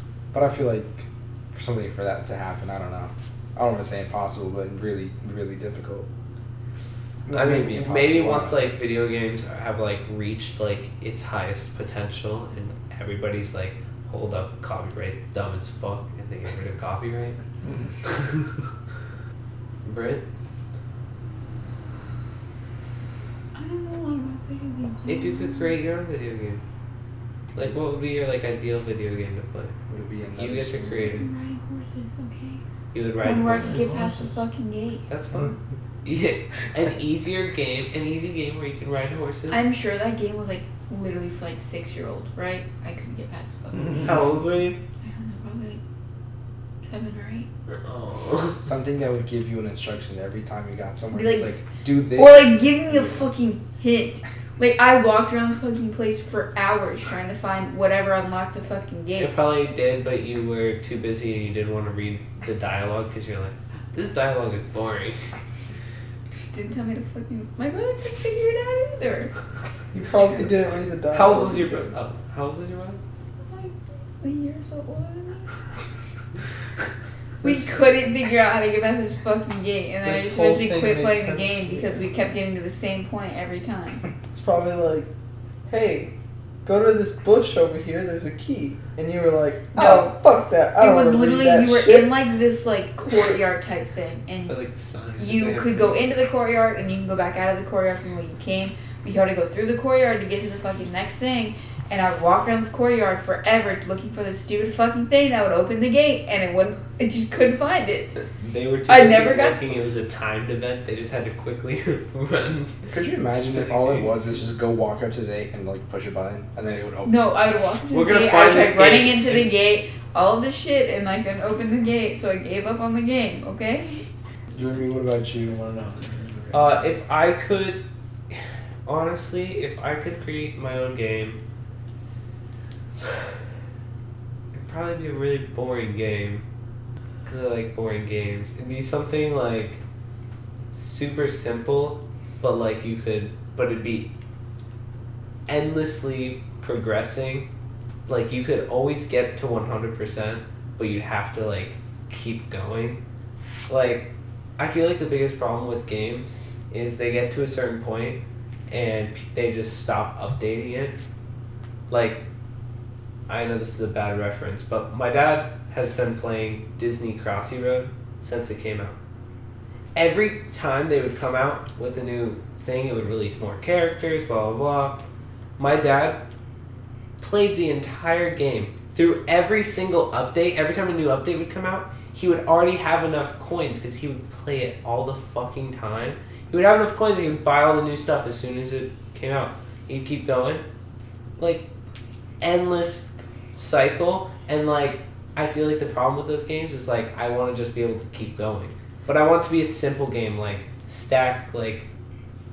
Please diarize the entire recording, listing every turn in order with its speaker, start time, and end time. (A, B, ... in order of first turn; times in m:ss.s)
0:00.3-0:06.1 A
0:07.3-0:08.6 A
0:07.3-0:17.4 B
0:18.1-0:18.5 B
0:19.8-0:20.2 B
0:23.6-0:25.8 C
0:25.1-0:26.6 B
0:27.6-0:29.8 B
0:29.9-0:31.2 A
0:30.4-0:31.3 B
0:31.0-0:32.6 C
0:32.9-0:33.9 B
0:33.2-0:35.1 C
0:33.6-0:34.4 D
0:35.1-0:39.6 B
0:39.5-0:44.4 C
0:44.0-0:44.8 B
0:45.0-0:45.8 C
0:46.8-0:47.5 C
0:47.7-0:48.6 B
0:48.6-0:53.3 A
0:51.1-0:51.6 C
0:52.1-0:59.3 C
0:59.2-1:05.4 B
1:06.3-1:09.3 C
1:09.9-1:11.9 E
1:11.1-1:13.0 B
1:13.4-1:15.5 C
1:17.4-1:17.8 E
1:17.4-1:24.1 C
1:20.0-1:22.1 E
1:24.3-1:25.1 E
1:25.7-1:26.1 E
1:26.6-1:32.1 E
1:29.7-1:30.2 C
1:30.7-1:34.6 C
1:34.5-1:36.0 B
1:35.2-1:48.2 C
1:48.4-1:52.9 B
1:48.9-1:49.7 C
1:52.9-1:57.2 A
1:53.6-1:54.0 B
1:57.0-2:04.1 C
1:57.9-1:59.5 B
2:04.5-2:05.6 A
2:05.4-2:06.9 D
2:06.5-2:11.4 B
2:14.5-2:16.4 B
2:17.2-2:19.8 B
2:20.7-2:24.1 B
2:25.5-2:27.5 B
2:28.1-2:33.0 B
2:33.7-2:41.0 B
2:41.9-2:42.2 B
2:43.3-2:49.0 B
2:50.0-2:55.0 B
2:55.6-2:56.2 B
2:57.2-3:10.6 B
3:11.4-3:11.7 B
3:12.4-3:21.9 B